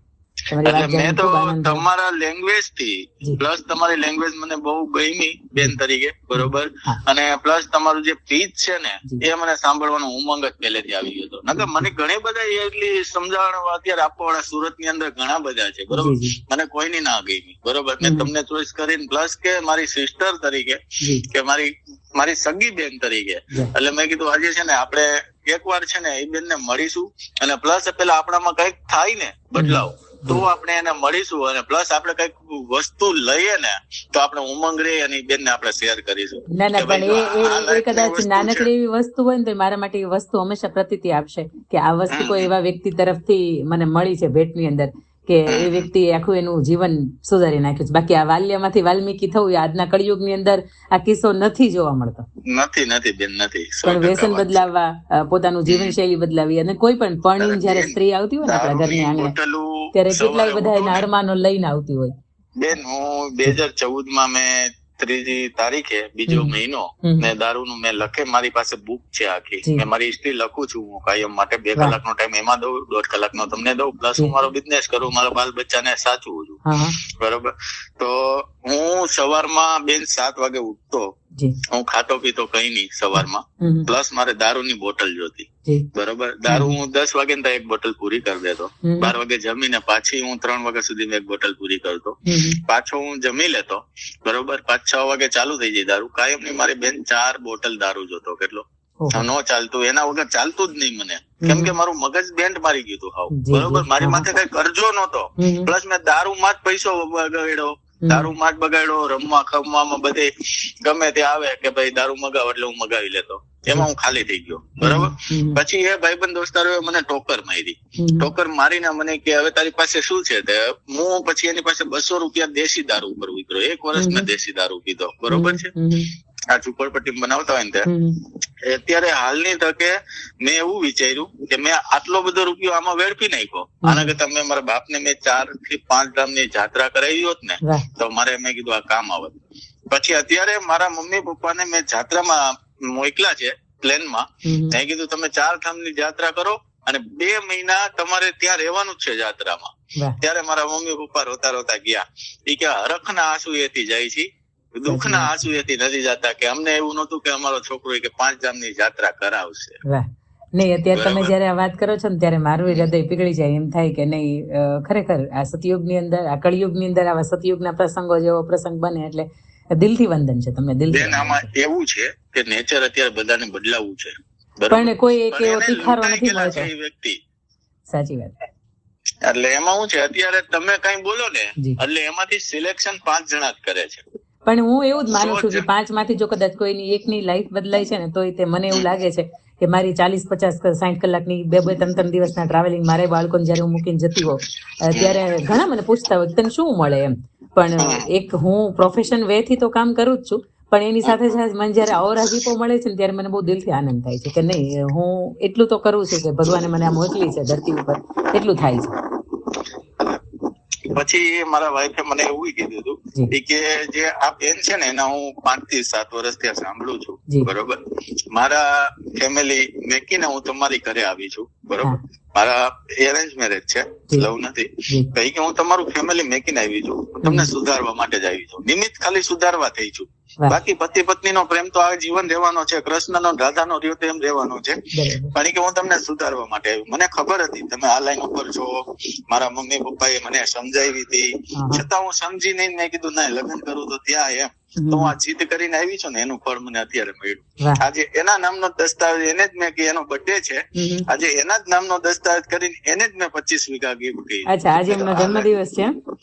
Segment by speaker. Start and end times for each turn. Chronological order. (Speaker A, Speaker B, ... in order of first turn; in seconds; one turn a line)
Speaker A: 0.5-1.9
Speaker B: 0.6-38.7
Speaker A: 6.3-7.0
Speaker A: 11.6-11.9
Speaker A: 15.9-16.4
Speaker A: 18.0-18.3
Speaker A: 29.6-30.4
Speaker A: 36.5-52.2
Speaker B: 42.1-42.5
Speaker B: 45.5-45.9
Speaker B: 52.5-54.7
Speaker A: 53.8-59.3
Speaker B: 55.7-56.0
Speaker B: 57.4-61.1
Speaker A: 59.9-62.1
Speaker B: 62.6-81.1
Speaker A: 66.3-67.3
Speaker A: 76.7-77.0
Speaker B: 81.7-125.7
Speaker A: 83.2-83.9
Speaker A: 86.5-86.8
Speaker A: 88.8-89.2
Speaker A: 92.3-92.6
Speaker A: 99.0-99.2
Speaker A: 101.4-101.7
Speaker A: 103.4-104.3
Speaker A: 105.4-105.7
Speaker A: 108.0-108.3
Speaker A: 114.8-115.6
Speaker A: 118.0-118.3
Speaker A: 124.0-124.3
Speaker A: 125.3-126.1
Speaker B: 126.5-127.9
Speaker A: 127.9-128.2
Speaker B: 128.7-139.4
Speaker B: 139.9-159.8
Speaker A: 144.4-144.8
Speaker A: 154.9-155.4
Speaker A: 159.9-171.5
Speaker B: 160.9-161.3
Speaker B: 170.9-177.2
Speaker A: 174.7-176.7
Speaker A: 177.9-178.3
Speaker B: 179.2-184.0
Speaker A: 184.5-208.9
Speaker B: 185.1-185.7
Speaker B: 194.9-195.2
Speaker B: 197.8-198.1
Speaker B: 210.8-217.8
Speaker B: 218.3-234.8
Speaker A: 227.2-227.5
Speaker A: 234.9-235.3
Speaker B: 235.3-238.7
Speaker B: 239.3-255.5
Speaker A: 241.6-241.8
Speaker A: 244.8-245.1
Speaker A: 250.8-251.1
Speaker A: 254.5-255.9